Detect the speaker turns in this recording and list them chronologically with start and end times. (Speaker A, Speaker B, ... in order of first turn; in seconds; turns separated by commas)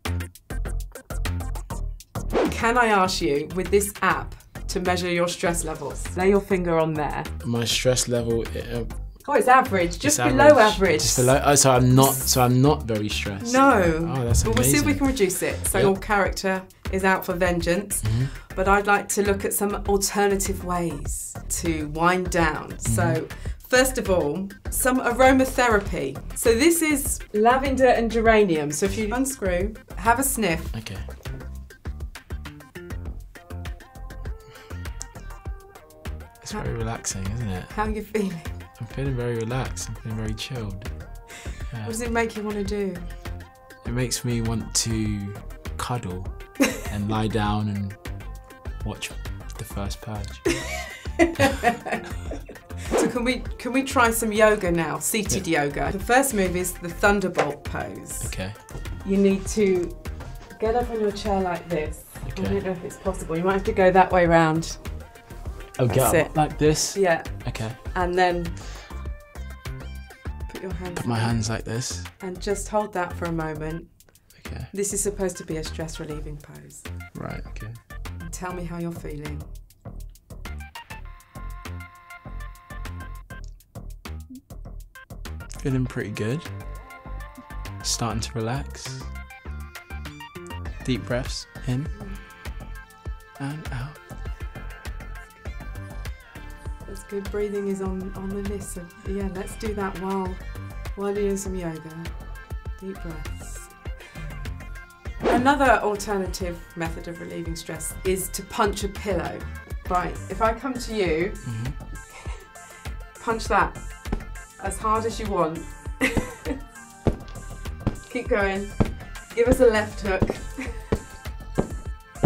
Speaker A: 2.5-7.3, Speaker B: 7.4-9.4, Speaker A: 9.2-12.4, Speaker B: 10.0-16.0, Speaker A: 13.4-31.1, Speaker B: 18.0-18.3, Speaker B: 22.9-23.2, Speaker B: 30.7-31.1, Speaker B: 36.4-38.1, Speaker A: 36.5-37.1, Speaker A: 37.7-38.6, Speaker B: 38.8-42.0, Speaker A: 41.8-43.2, Speaker B: 43.8-50.7, Speaker A: 53.0-65.2, Speaker B: 58.2-58.6, Speaker B: 62.3-62.6, Speaker B: 65.8-67.9, Speaker A: 65.9-68.6, Speaker A: 70.5-77.1, Speaker B: 71.0-72.1, Speaker B: 74.3-74.7, Speaker B: 77.1-77.6, Speaker A: 78.2-79.5, Speaker B: 85.6-86.5, Speaker B: 87.8-89.1, Speaker B: 90.8-91.9, Speaker A: 91.9-92.2, Speaker B: 93.4-94.0, Speaker A: 96.8-104.0, Speaker A: 105.2-112.4, Speaker B: 111.4-111.8, Speaker A: 113.1-116.2, Speaker A: 118.0-121.0